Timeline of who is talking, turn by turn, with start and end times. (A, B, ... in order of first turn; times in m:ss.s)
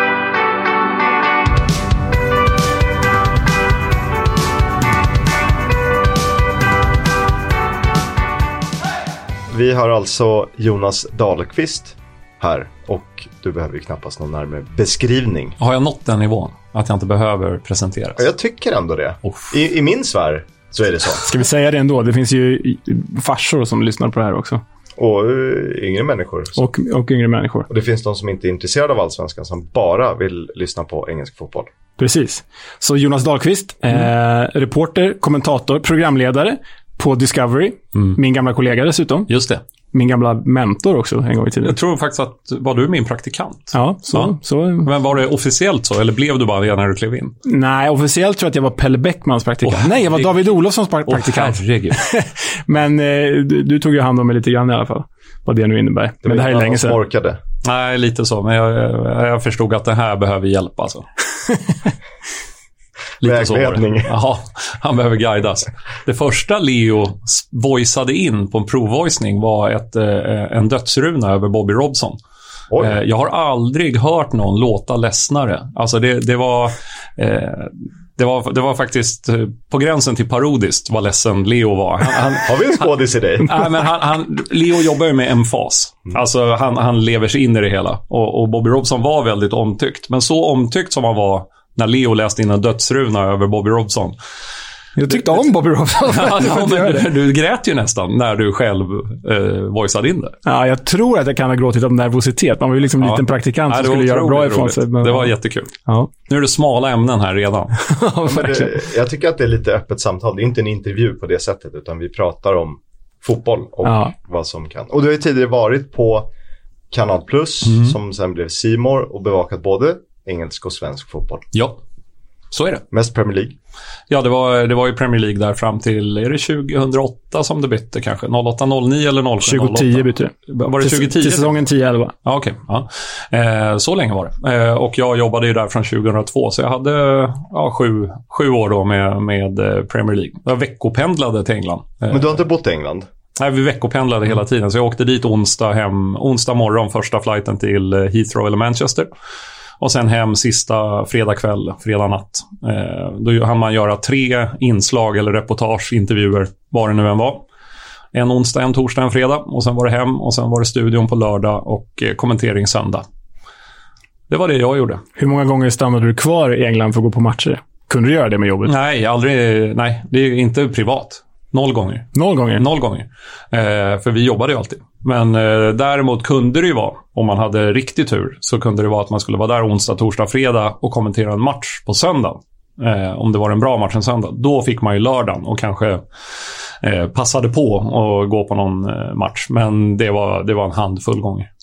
0:09.5-0:15.6 A
0:15.6-0:18.2 B
0:18.2-0:21.3 A
0:21.2-0:24.6 C
0:25.0-0:26.6 A
0:26.6-0:27.7 C
0:27.7-0:31.7 A
0:32.0-0:39.3 C
0:39.3-0:39.6 B
0:39.9-0:41.8 C
0:41.6-0:47.3 B
0:43.7-0:44.9 C
0:47.4-0:57.0 C
0:49.6-0:50.5 B
0:51.1-0:52.0 B
0:56.2-0:57.4 A
0:57.6-1:01.0 B
1:03.2-1:04.1 A
1:03.2-1:12.2 B
1:12.7-1:13.0 A
1:12.8-1:22.8 B
1:22.3-1:23.6 A
1:23.4-1:34.2 B
1:35.0-1:37.1 C
1:36.1-1:40.4 B
1:40.4-1:45.3 C
1:43.0-1:45.7 B
1:46.3-1:47.8 B
1:47.8-1:48.7 C
1:48.3-1:56.3 A
1:53.8-1:54.1 C
1:56.9-2:01.5 A
1:57.7-1:58.0 B
2:01.5-2:01.8 B
2:02.5-2:02.8 B
2:02.9-2:03.6 A
2:04.1-2:11.6 B
2:09.4-2:12.2 C
2:12.2-2:22.4 B
2:22.1-2:23.1 A
2:23.4-2:29.1 B
2:29.8-2:37.4 B
2:38.1-2:43.0 B
2:44.3-2:45.0 B
2:45.2-2:48.7 C
2:48.7-3:06.0 B
2:52.1-2:52.6 C
3:06.8-3:11.5 B